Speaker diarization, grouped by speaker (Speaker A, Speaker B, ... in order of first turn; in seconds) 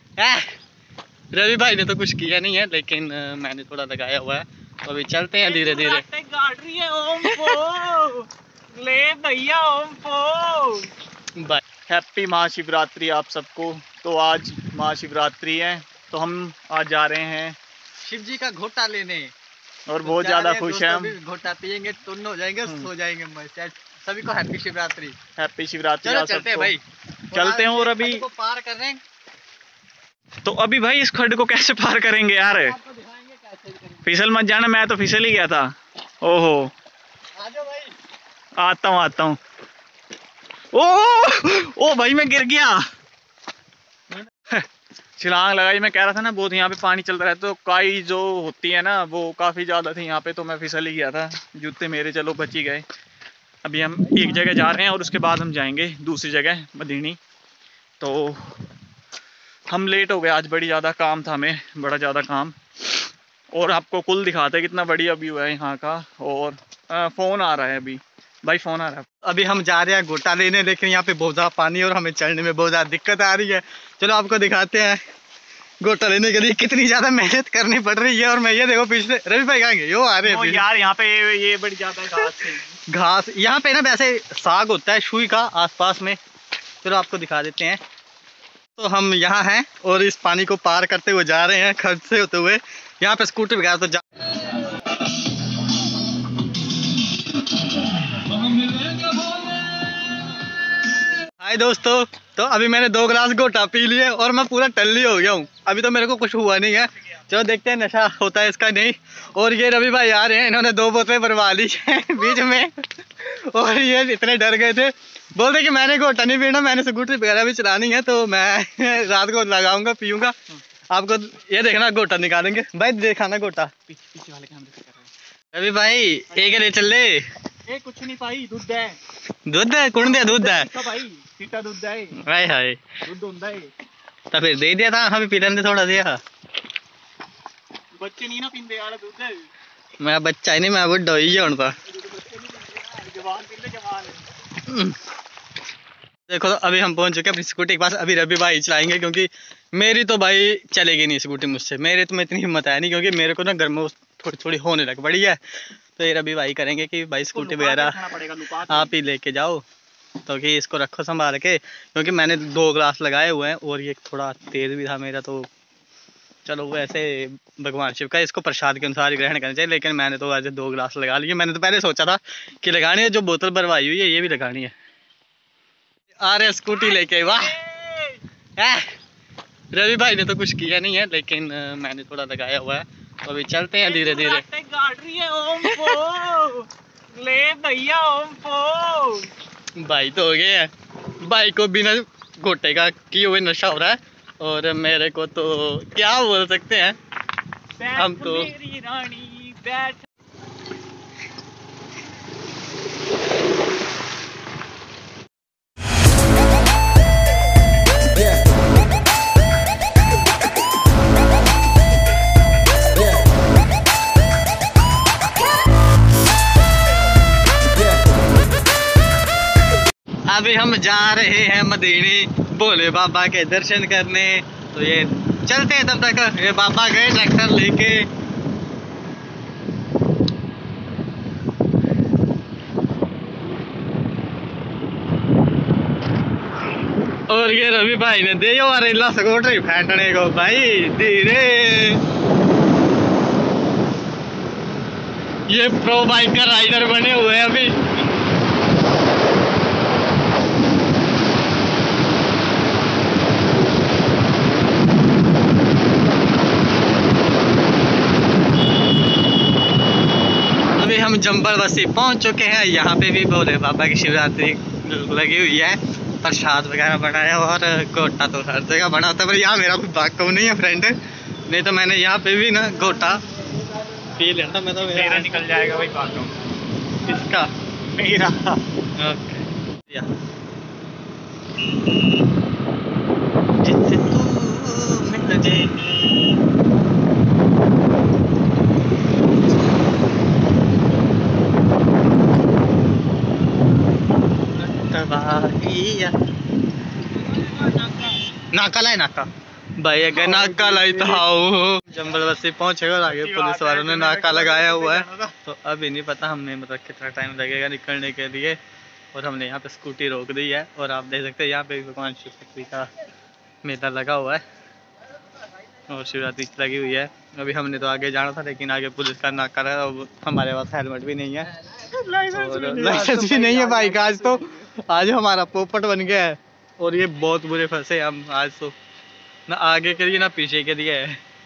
Speaker A: 0.2-0.5, 1.3-6.0, 7.2-7.6, 11.4-11.6, 18.0-19.3, 20.0-25.2, 26.0-26.8, 27.3-29.0, 37.4-37.9, 69.2-75.0, 75.8-80.7, 82.9-86.2, 86.8-87.8, 88.8-94.0, 101.4-120.4, 120.9-123.7, 125.5-127.3, 129.5-130.7, 132.2-132.8, 134.3-136.2, 140.0-141.8, 144.6-145.0, 146.3-158.0, 158.7-159.6, 160.3-165.5, 166.4-174.7, 176.2-177.6, 178.6-178.9, 179.7-184.4, 185.6-186.1, 189.8-197.0, 198.0-198.5, 220.3-228.1, 237.3-242.0, 245.5-247.8, 260.8-273.2, 274.1-275.3, 277.0-277.5, 279.0-280.1, 283.6-286.2, 294.6-296.2, 298.5-308.6, 309.1-312.9, 313.6-314.4, 315.9-321.5, 322.3-328.8, 329.5-331.2
Speaker B: 5.5-10.9, 11.9-17.6, 19.9-21.1, 25.4-26.8, 27.3-28.2, 30.4-32.8, 33.9-36.7, 38.6-39.4, 40.7-42.8, 45.2-52.9, 53.6-57.2, 58.0-58.6, 59.7-69.1, 80.2-82.8, 123.9-125.1, 127.7-129.0, 130.0-132.2, 133.1-133.7, 138.0-139.5, 142.1-144.2, 157.3-158.9, 177.0-178.2, 183.8-189.3, 197.8-200.1, 274.9-276.3, 277.9-278.6, 300.3-300.8, 303.1-305.3, 322.1-322.9